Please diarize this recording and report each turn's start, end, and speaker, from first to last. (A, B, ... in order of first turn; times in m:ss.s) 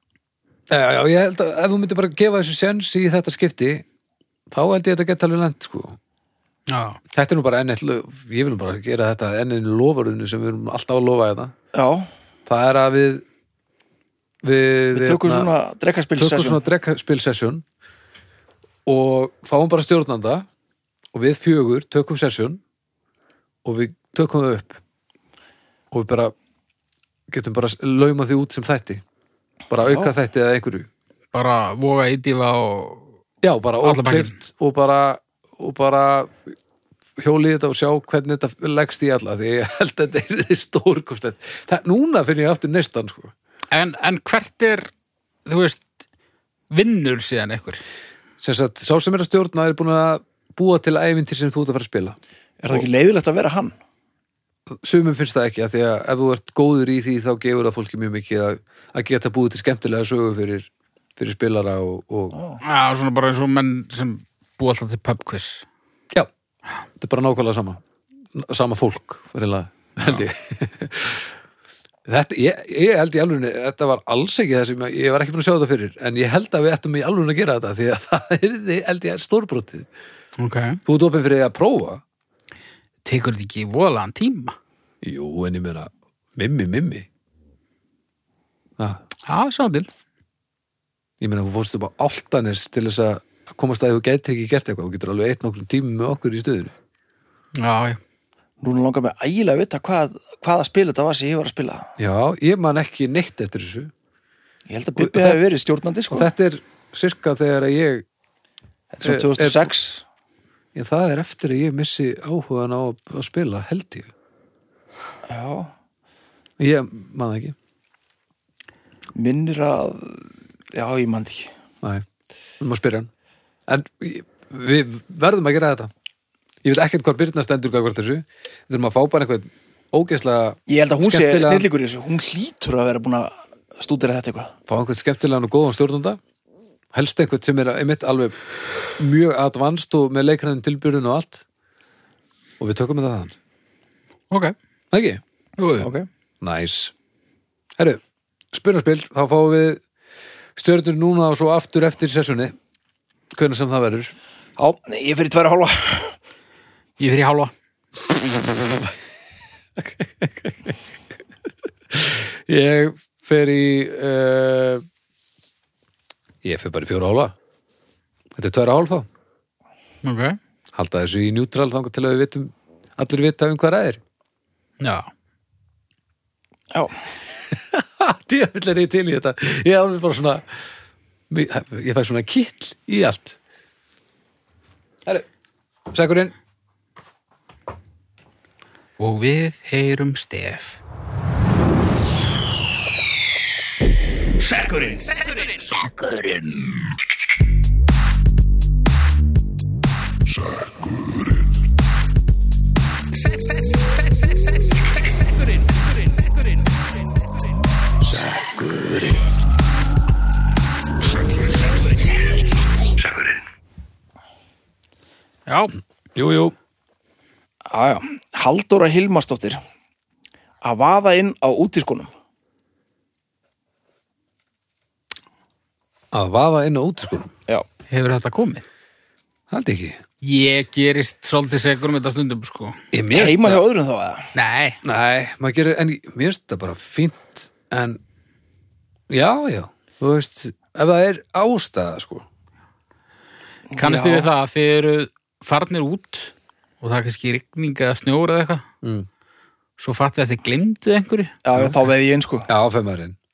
0:00.7-0:03.8 A
0:04.5-0:06.0 A
0:06.7-0:07.0 B
0:07.1-0:11.5 A
0:11.7-0:12.1 C
0:12.5-0:13.2 A
0:14.4-0:15.5 A
0:14.9-0:16.6 C
0:16.2-0:17.6 A
0:18.8-0:20.5 A
0:21.1-0:22.6 A
0:23.6-0:24.8 A
0:25.9-0:26.3 A
0:27.3-0:29.0 A
0:29.7-0:30.9 A
0:29.8-0:30.1 C
0:31.3-0:33.1 B
0:33.4-0:36.5 A
0:33.8-0:34.3 B
0:37.2-0:43.3 A
0:43.7-0:44.9 B
0:45.4-0:45.9 B
0:46.7-0:47.8 B
0:48.4-0:52.2 A
0:52.6-0:53.7 C
0:54.7-1:02.4 A
1:02.3-1:02.6 C
1:02.6-1:05.6 B
1:07.0-1:07.8 A
1:08.3-1:11.3 A
1:10.0-1:10.2 B
1:12.0-1:19.9 A
1:20.4-1:20.8 B
1:20.8-1:22.0 A
1:23.0-1:24.6 B
1:25.0-1:27.1 A
1:29.3-1:29.9 B
1:31.2-1:36.7 A
1:37.6-1:38.0 B
1:38.6-1:41.9 C
1:42.0-1:43.9 A
1:44.7-1:46.3 C
1:45.0-1:45.4 A
1:46.1-1:48.0 A
1:48.9-1:50.0 C
1:49.0-1:49.7 A
1:50.7-1:54.1 A
1:55.3-1:55.7 C
1:56.6-1:57.6 A
1:59.2-2:01.5 C
2:02.6-2:03.1 A
2:03.7-2:05.9 A
2:06.6-2:11.7 A
2:10.7-2:14.5 C
2:14.7-2:16.2 A
2:16.9-2:18.4 A
2:19.0-2:21.4 A
2:22.6-2:23.3 A
2:24.3-2:24.5 B
2:24.9-2:25.2 A
2:25.6-2:25.9 B
2:25.8-2:26.1 C
2:26.4-2:26.9 A
2:28.5-2:29.8 A
2:30.6-2:32.5 A
2:33.3-2:34.1 A
2:34.6-2:36.2 C
2:37.0-2:37.5 B
2:38.6-2:38.9 A
2:39.8-2:40.8 A
2:41.9-2:44.8 A
2:46.4-2:47.3 A
2:48.3-2:49.1 A
2:50.0-2:50.4 B
2:50.7-2:54.0 A
2:54.8-2:55.1 B
2:57.5-3:00.4 A
3:01.3-3:03.4 A
3:05.9-3:06.3 A
3:09.0-3:10.8 B
3:14.6-3:16.6 B
3:20.8-3:21.3 A
3:23.3-3:24.2 B
3:28.1-3:29.3 A
3:35.5-3:35.7 B
3:36.1-3:36.5 A
3:37.7-3:39.6 C
3:40.6-3:42.1 C
3:46.1-3:47.3 A
3:47.9-3:48.6 B
3:49.5-3:50.0 A
3:50.2-3:52.8 B
3:52.9-3:53.6 A
3:53.1-3:54.3 C
3:54.3-3:54.8 B
3:54.8-3:58.0 A
3:59.1-4:02.2 A
4:03.7-4:04.3 C
4:03.8-4:08.6 B
4:09.8-4:11.4 B
4:11.4-4:12.5 C
4:12.5-4:13.2 A